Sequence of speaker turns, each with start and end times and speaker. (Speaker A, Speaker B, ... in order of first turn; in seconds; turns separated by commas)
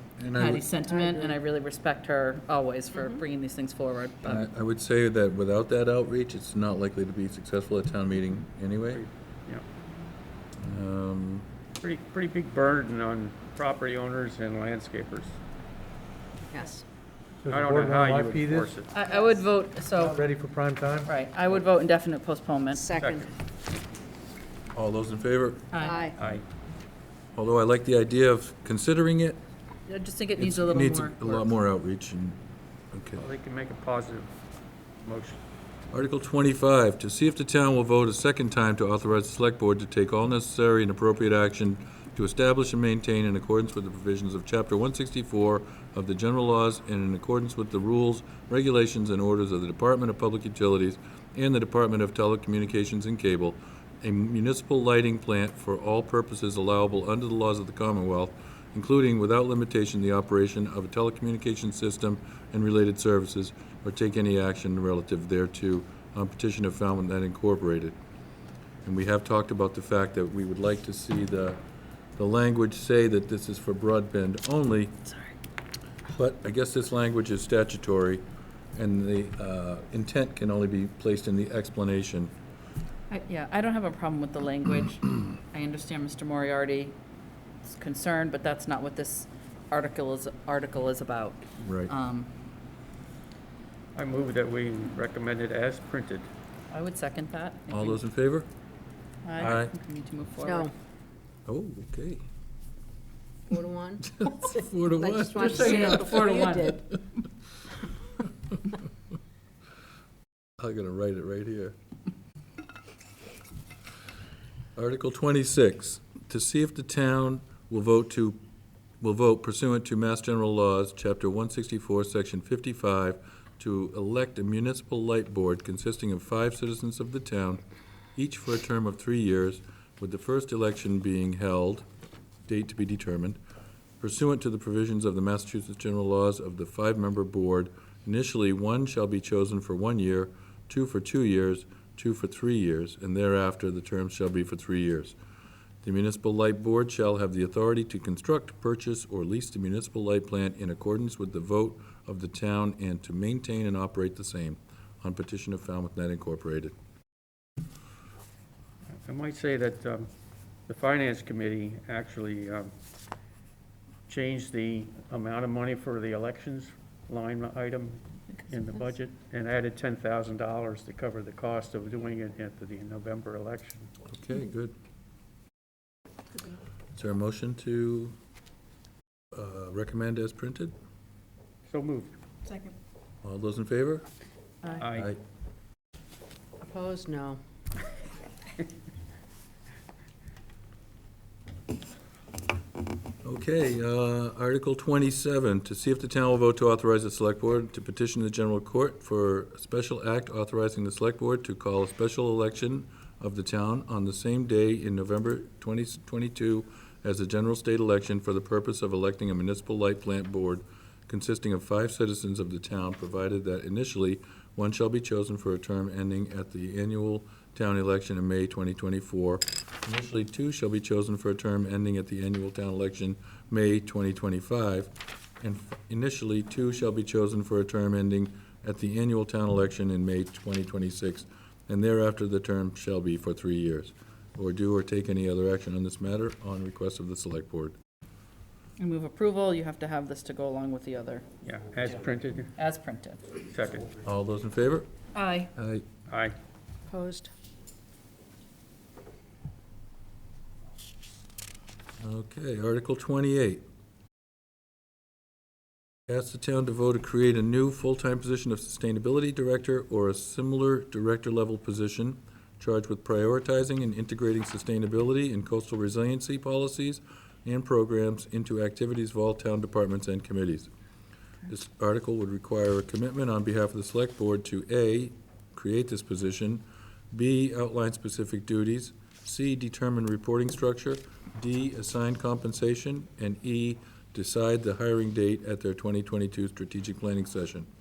Speaker A: 0.2-0.7, Speaker B: 0.3-4.5, Speaker C: 0.9-1.4, Speaker C: 2.9-3.2, Speaker A: 4.2-9.0, Speaker D: 8.9-9.7, Speaker A: 10.6-11.5, Speaker D: 11.8-15.4, Speaker C: 16.5-16.8, Speaker E: 17.4-18.7, Speaker D: 17.5-18.9, Speaker B: 18.9-20.2, Speaker C: 19.1-19.4, Speaker E: 20.0-21.1, Speaker B: 21.1-22.8, Speaker C: 22.7-23.3, Speaker D: 23.0-23.3, Speaker A: 24.7-25.7, Speaker B: 25.7-26.1, Speaker C: 25.8-26.1, Speaker D: 26.2-26.4, Speaker A: 27.3-29.4, Speaker B: 29.9-31.5, Speaker A: 30.4-32.4, Speaker A: 32.9-33.2, Speaker D: 33.2-34.3, Speaker D: 35.0-35.4, Speaker A: 35.9-68.0, Speaker A: 68.8-71.6, Speaker A: 72.2-75.0, Speaker A: 76.1-78.2, Speaker A: 78.7-82.3, Speaker B: 83.1-87.0, Speaker B: 87.6-92.3, Speaker A: 91.6-91.9, Speaker D: 93.9-96.3, Speaker B: 96.7-98.0, Speaker A: 97.7-98.5, Speaker B: 99.2-100.7, Speaker A: 99.4-99.7, Speaker C: 100.4-100.7, Speaker A: 101.5-102.2, Speaker C: 103.5-104.0, Speaker A: 104.0-106.5, Speaker C: 104.9-106.8, Speaker B: 105.4-106.8, Speaker A: 110.6-111.7, Speaker A: 114.8-118.4, Speaker A: 119.0-127.6, Speaker A: 128.2-131.8, Speaker A: 132.4-133.4, Speaker A: 134.0-145.2, Speaker A: 145.8-156.7, Speaker D: 159.0-160.1, Speaker D: 160.7-162.7, Speaker D: 164.1-173.9, Speaker B: 168.3-168.6, Speaker A: 174.1-174.7, Speaker A: 176.9-178.2, Speaker A: 179.3-180.7, Speaker D: 181.7-182.1, Speaker A: 183.2-184.1, Speaker D: 184.7-185.1, Speaker A: 184.9-185.2, Speaker C: 186.6-187.4, Speaker A: 193.2-237.7, Speaker B: 238.8-241.2, Speaker D: 241.4-242.5, Speaker B: 242.6-243.2, Speaker D: 243.5-243.9, Speaker A: 244.0-244.9, Speaker B: 245.1-245.5, Speaker A: 245.6-245.8, Speaker D: 246.1-246.3, Speaker C: 246.9-247.3, Speaker A: 252.0-253.6, Speaker A: 256.1-270.7, Speaker A: 271.5-287.7